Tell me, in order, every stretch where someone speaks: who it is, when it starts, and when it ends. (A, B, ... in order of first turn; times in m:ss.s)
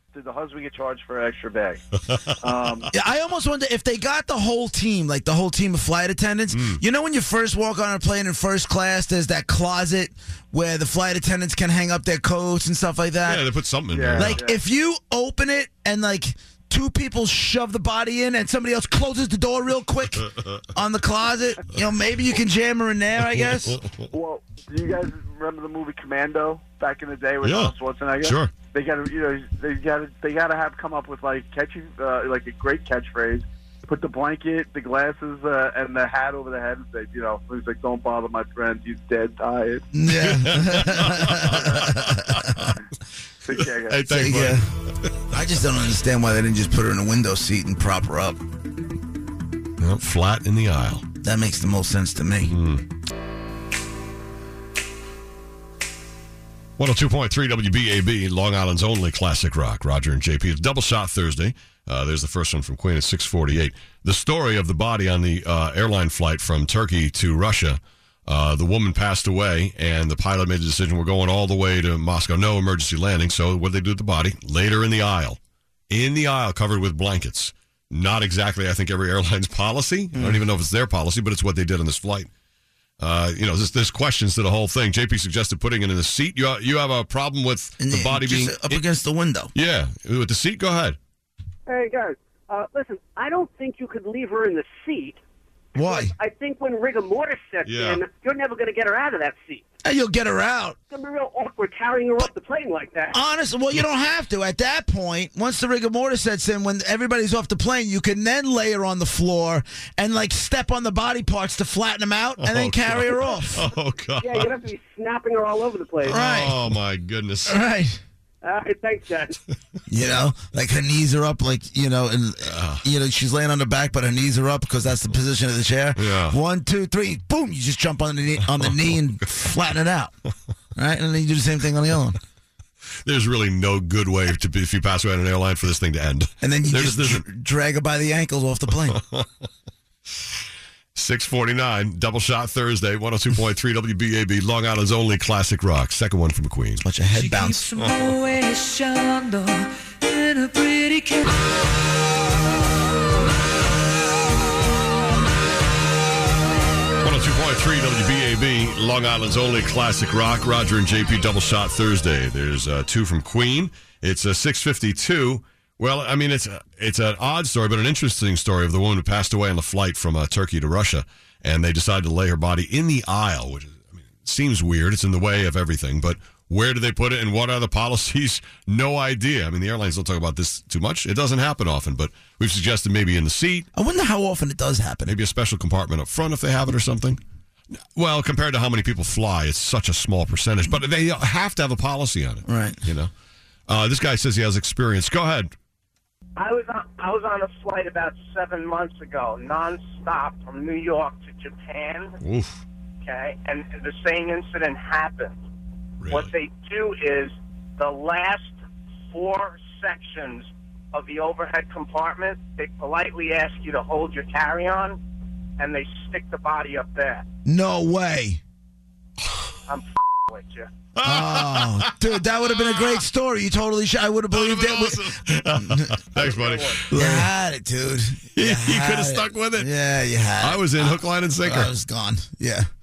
0:00.1-0:01.8 A
0:02.0-0:02.4 B
0:02.4-0:02.9 A
0:02.9-0:13.5 C
0:06.5-0:06.8 B
0:13.2-0:14.4 B
0:13.9-0:14.6 A
0:14.2-0:23.8 C
0:23.7-0:24.1 B
0:24.1-0:39.9 A
0:27.4-0:28.5 B
0:39.9-0:42.2 C
0:40.2-0:42.8 B
0:43.4-0:44.0 A
0:43.9-0:45.2 B
0:44.1-0:44.7 C
0:45.3-0:48.4 C
0:49.8-0:51.1 B
0:51.2-0:52.5 C
0:52.4-0:52.8 B
0:56.8-1:15.4 B
1:15.9-1:22.3 B
1:20.1-1:20.4 C
1:23.0-1:28.8 B
1:27.8-1:29.5 C
1:29.5-1:31.0 B
1:31.7-1:35.2 D
1:35.8-1:36.1 C
1:35.8-1:39.6 D
1:37.6-1:38.0 B
1:39.8-1:40.8 C
1:40.9-1:43.2 D
1:43.1-1:53.7 C
1:52.4-1:54.5 B
1:54.2-1:56.2 D
1:56.0-1:57.6 B
1:56.0-1:56.6 C
1:57.5-1:58.0 C
1:58.4-1:59.4 D
1:59.9-2:10.1 C
2:02.4-2:02.8 B
2:06.0-2:06.4 B
2:10.8-2:12.2 C
2:13.0-2:17.2 B
2:16.4-2:19.0 C
2:18.9-2:19.3 B
2:21.0-2:26.8 B
2:26.8-2:27.7 C
2:27.2-2:31.2 E
2:37.0-3:03.7 B
3:03.7-3:05.2 C
3:05.1-3:07.2 B
3:08.0-3:13.1 B
3:12.5-3:12.8 C
3:13.7-3:15.5 B
3:16.4-3:22.1 F
3:22.2-3:22.6 B
3:23.0-3:25.4 F
3:26.0-3:26.3 B
3:26.1-3:28.5 F
3:29.1-3:35.0 F
3:35.6-3:37.2 F
3:37.5-3:38.4 C
3:39.7-3:40.7 F
3:41.0-3:42.0 B
3:41.0-3:46.2 C
3:42.5-3:43.0 B
3:44.3-3:47.3 B
3:46.2-3:46.9 F
3:46.9-3:52.7 C
3:48.4-3:49.7 B
3:50.4-3:51.7 B